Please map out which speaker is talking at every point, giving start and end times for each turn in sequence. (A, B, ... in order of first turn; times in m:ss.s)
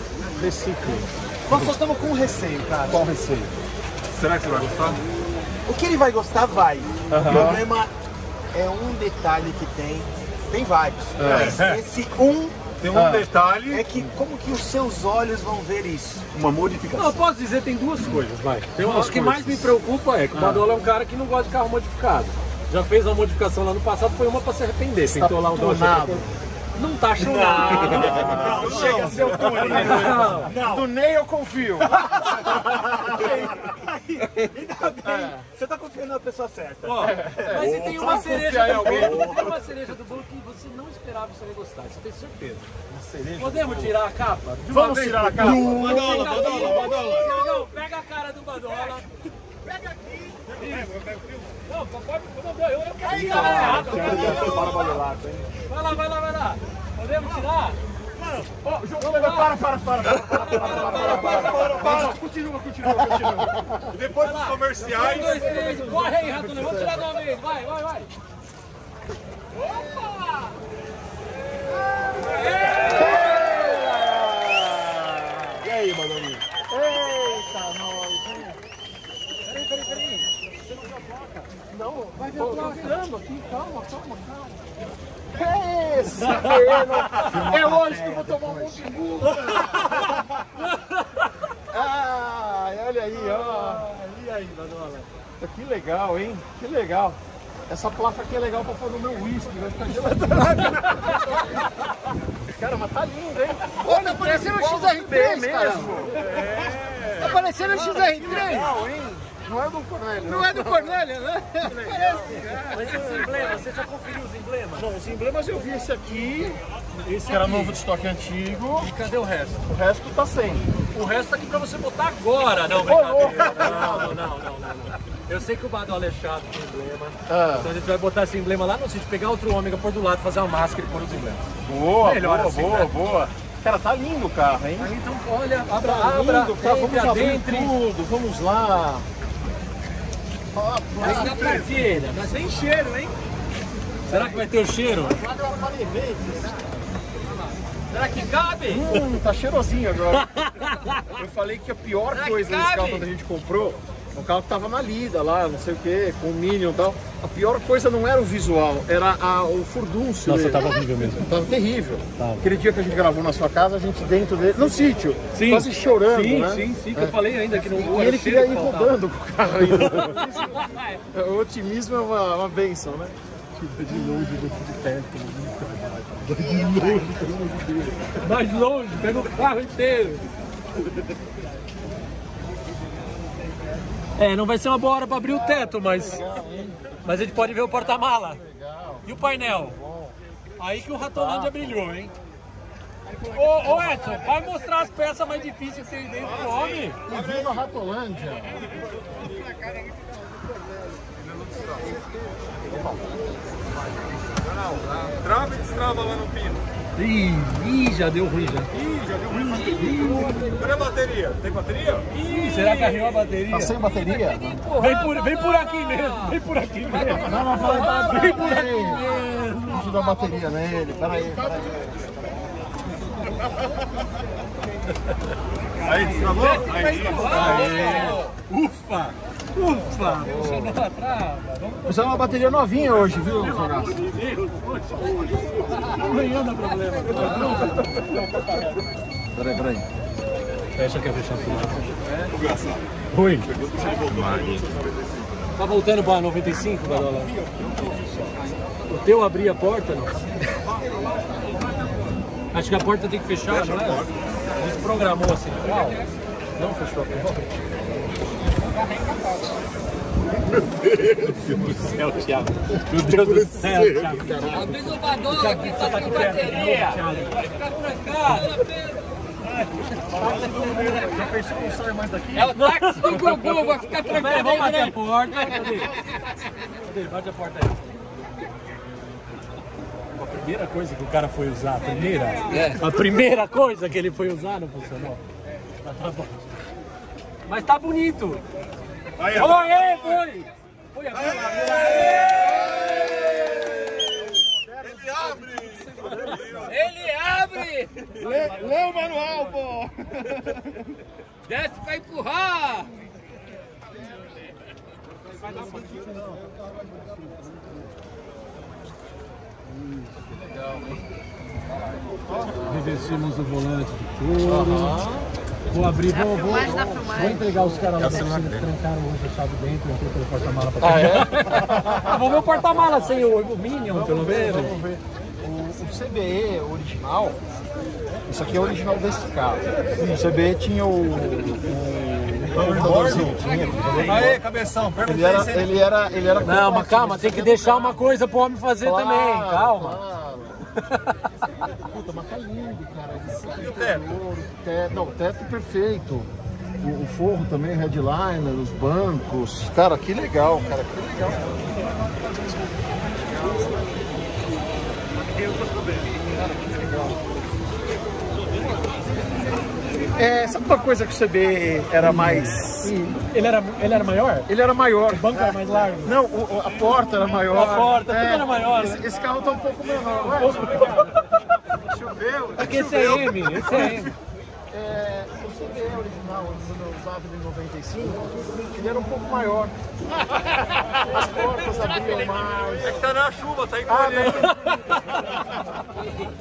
0:00.4-0:01.1 A
0:01.5-0:03.1 B
0:02.9-0:03.5 C
0:04.1-0:05.0 D
0:05.6-0:07.9 B
0:07.1-0:07.6 C
0:07.2-0:07.5 D
0:08.5-0:12.6 B
0:11.2-0:11.6 C
0:11.2-0:11.7 D
0:12.8-0:13.8 D
0:12.9-0:13.2 C
0:13.6-0:17.2 B
0:17.0-0:28.9 A
0:18.8-0:19.7 C
0:20.3-0:20.6 C
0:25.0-0:26.3 C
0:27.2-0:33.4 C
0:27.5-0:30.8 B
0:27.6-0:30.6 D
0:29.5-0:30.5 A
0:32.4-0:37.9 B
0:35.0-0:35.4 C
0:36.8-0:42.7 A
0:37.0-0:39.5 C
0:37.6-0:39.5 D
0:38.9-0:39.3 B
0:42.9-0:43.9 C
0:43.4-0:49.1 A
0:44.7-0:46.9 C
0:45.4-0:47.5 D
0:50.4-0:51.6 D
0:50.5-0:50.9 A
0:51.6-0:55.0 A
0:53.1-0:55.4 C
0:53.1-0:55.4 B
0:53.4-0:54.8 D
0:55.7-0:57.8 A
0:58.6-1:02.2 C
0:59.0-1:02.0 A
1:00.7-1:05.6 D
1:02.8-1:03.9 C
1:04.1-1:08.1 A
1:05.3-1:07.1 C
1:12.1-1:13.5 A
1:12.8-1:15.6 C
1:15.8-1:16.2 B
1:16.5-1:18.6 C
1:19.4-1:21.5 A
1:21.7-1:24.6 C
1:22.2-1:23.0 A
1:25.3-1:30.1 C
1:26.2-1:27.0 A
1:27.1-1:28.9 B
1:29.3-1:30.1 A
1:31.7-1:33.9 C
1:33.1-1:35.1 A
1:35.4-1:41.7 C
1:40.5-1:41.2 A
1:42.4-1:53.6 C
1:43.9-1:45.9 E
1:43.9-1:48.7 A
1:47.2-1:48.7 E
1:50.2-1:52.5 E
1:50.6-1:51.6 A
1:52.7-1:54.9 A
1:54.7-1:56.6 C
1:57.0-1:57.8 A
1:57.2-1:58.9 C
1:58.8-1:59.6 A
1:59.7-2:00.7 C
2:00.9-2:11.4 A
2:02.7-2:04.3 C
2:07.3-2:07.7 C
2:11.6-2:14.9 C
2:12.0-2:13.0 A
2:14.8-2:17.7 A
2:15.7-2:19.1 C
2:20.5-2:21.7 C
2:21.0-2:23.1 A
2:21.1-2:21.8 E
2:24.1-2:25.2 A
2:24.1-2:24.4 C
2:25.0-2:26.5 C
2:27.9-2:29.0 A
2:28.6-2:30.4 C
2:30.2-2:31.0 A
2:31.0-2:50.5 C
2:32.1-2:33.0 A
2:40.2-2:41.2 A
2:42.2-2:42.4 A
2:45.3-2:49.0 A
2:49.6-2:51.0 A
2:51.1-2:53.2 C
2:53.6-3:00.2 A
3:04.2-3:06.2 A
3:05.5-3:10.2 C
3:07.0-3:08.4 A
3:09.0-3:09.8 A
3:10.6-3:12.1 A
3:11.0-3:11.7 C
3:13.1-3:14.3 C
3:13.3-3:17.0 A
3:16.2-3:17.6 D
3:17.1-3:18.8 C
3:21.2-3:21.9 D
3:24.4-3:26.6 D
3:27.0-3:28.7 A
3:28.7-3:32.1 D
3:29.5-3:30.6 C
3:32.1-3:33.7 A
3:32.6-3:33.0 E
3:33.5-3:34.6 C
3:34.3-3:36.0 E
3:34.8-3:40.0 A
3:37.0-3:39.1 C
3:39.6-3:42.5 C
3:45.8-3:48.2 D
3:46.0-3:52.0 A
3:47.3-3:48.2 C
3:50.0-3:50.7 C
3:51.8-3:54.0 C
3:53.2-3:58.6 A
3:57.2-3:57.7 C
3:59.3-3:59.8 C
4:00.8-4:01.8 A
4:02.1-4:02.8 D
4:03.1-4:03.5 A
4:03.4-4:05.0 D
4:05.6-4:07.3 A
4:08.9-4:10.3 A
4:12.5-4:17.5 A
4:13.5-4:14.2 D
4:21.3-4:21.7 D
4:21.3-4:28.7 A
4:23.2-4:23.8 D
4:24.2-4:24.9 C
4:24.7-4:26.9 E
4:30.1-4:32.7 C
4:30.1-4:31.1 D
4:32.4-4:36.0 E
4:32.5-4:36.0 A
4:36.7-4:37.9 A
4:40.2-4:45.2 A
4:45.8-4:46.5 A
4:47.4-4:48.4 A
4:49.2-4:50.2 D
4:49.2-4:52.8 A
4:51.2-4:53.5 D
4:52.2-4:56.7 C
4:54.8-4:56.8 D
4:56.9-4:57.9 E
4:58.1-5:00.7 C
5:01.5-5:02.9 E
5:05.5-5:06.5 C
5:10.2-5:11.0 C
5:12.0-5:13.1 C
5:12.6-5:15.0 A
5:14.4-5:15.3 C
5:15.7-5:24.8 A
5:16.1-5:17.4 E
5:16.8-5:18.5 C
5:20.8-5:22.2 C
5:23.9-5:27.4 C
5:28.3-5:34.4 C
5:32.5-5:35.8 D
5:35.0-5:38.0 C
5:36.4-5:40.0 A
5:38.8-5:40.7 C
5:40.8-5:41.3 A
5:41.8-5:46.3 C
5:43.5-5:44.1 D
5:46.8-5:52.6 C
5:53.3-5:53.8 C
5:56.2-5:57.2 C
6:00.1-6:03.2 C
6:02.0-6:02.7 A
6:03.3-6:04.5 A
6:04.4-6:11.1 C
6:05.2-6:06.1 A
6:07.3-6:09.1 A
6:10.0-6:11.2 A
6:11.8-6:14.0 C
6:12.6-6:14.1 A
6:12.8-6:14.1 D
6:14.7-6:19.7 C
6:20.8-6:23.0 C
6:21.6-6:22.3 D
6:22.8-6:24.6 D
6:23.9-6:24.7 C
6:24.5-6:25.2 A